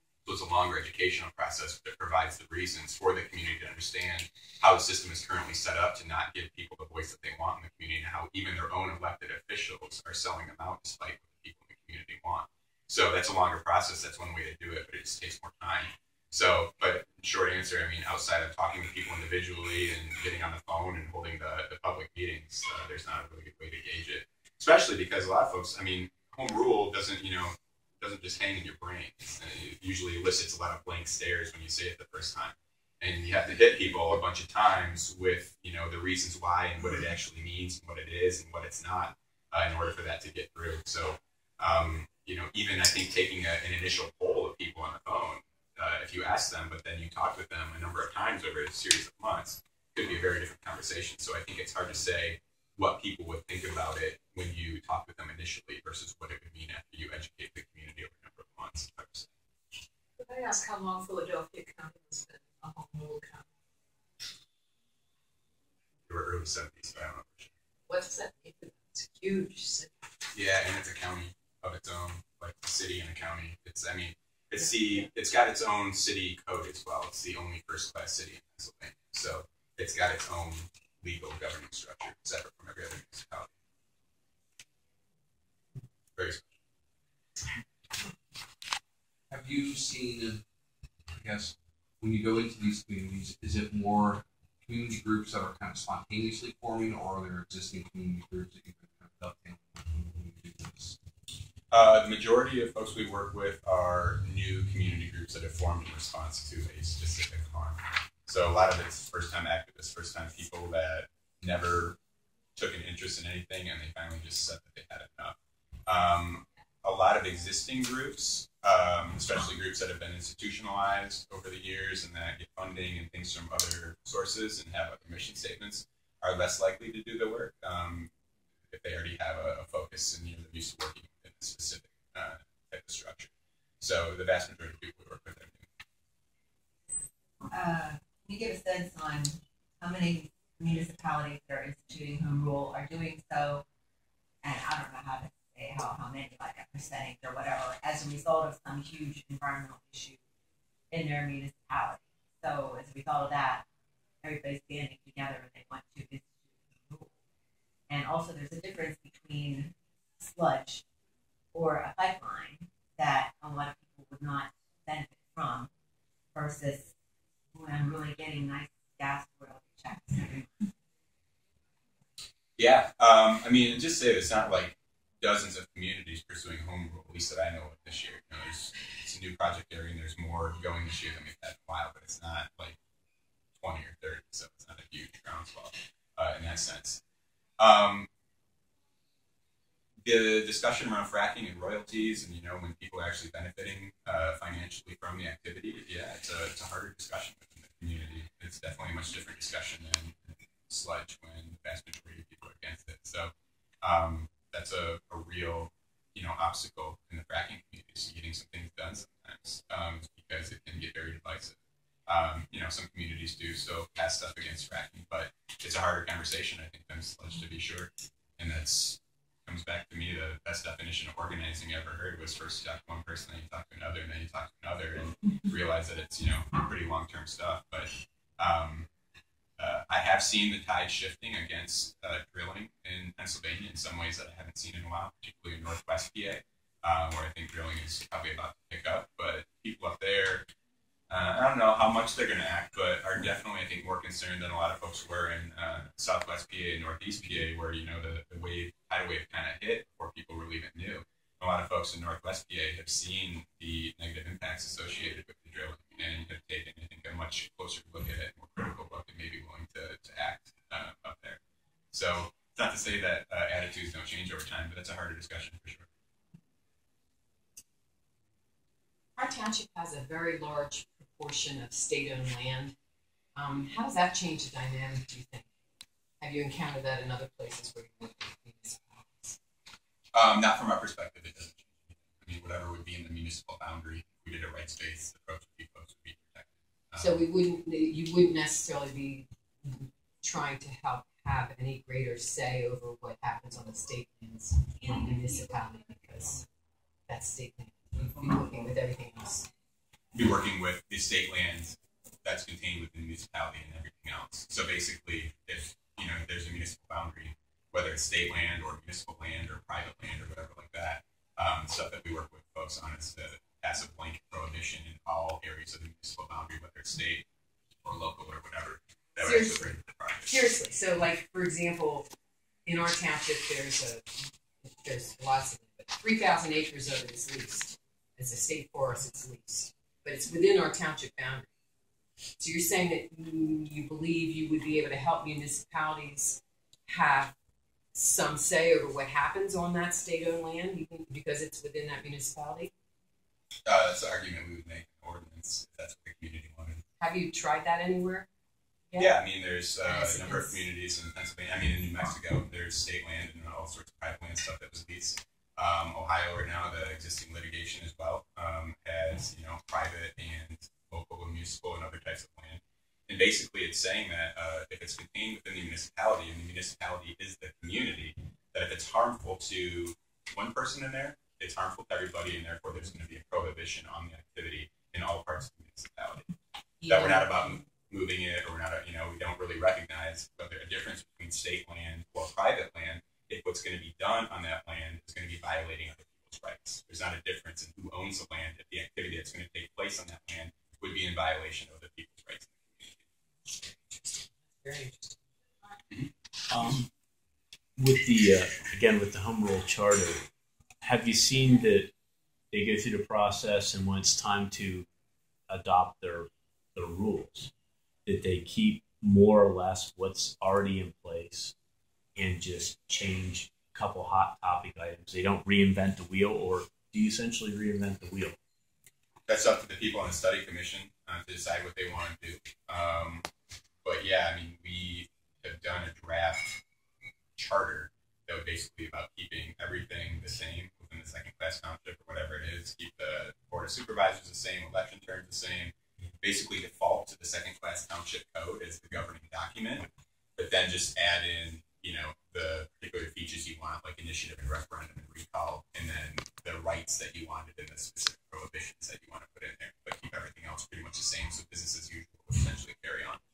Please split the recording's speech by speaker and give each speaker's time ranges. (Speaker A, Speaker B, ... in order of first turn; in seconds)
Speaker A: 0.2-59.3, 66.1-67.5, 70.3-83.5, 86.2-86.5, 101.7-112.0, 112.6-115.3, 115.9-128.1, 128.7-133.3, 133.8-135.7, 172.6-182.8, 183.6-187.0, 187.6-188.1, 190.0-211.6, 212.1-228.9, 229.6-240.5, 241.1-261.4, 261.9-265.9, 280.1-287.2, 300.1-317.3, 317.8-320.4, 343.7-346.8, 349.0-376.3, 376.9-393.1, 419.3-423.2, 423.8-426.6, 427.4-453.2
Speaker B: 60.2-63.5, 67.9-70.0
Speaker C: 89.3-90.4, 91.1-101.0
Speaker D: 137.5-143.6, 144.4-150.2, 150.9-153.7, 154.2-157.1, 157.9-160.8, 161.5-165.7, 166.3-166.9, 167.5-170.7
Speaker E: 269.2-272.7, 273.4-275.5, 276.2-279.4, 287.0-296.5, 297.1-299.5, 319.2-319.7, 320.3-322.1, 322.7-331.5, 332.4-337.3, 337.9-342.7, 347.0-348.3, 349.9-350.6, 376.8-377.6, 393.5-395.2
Speaker F: 396.5-396.9, 397.8-400.3, 400.8-401.9, 402.5-404.9, 405.5-407.5, 408.1-411.5, 412.2-418.4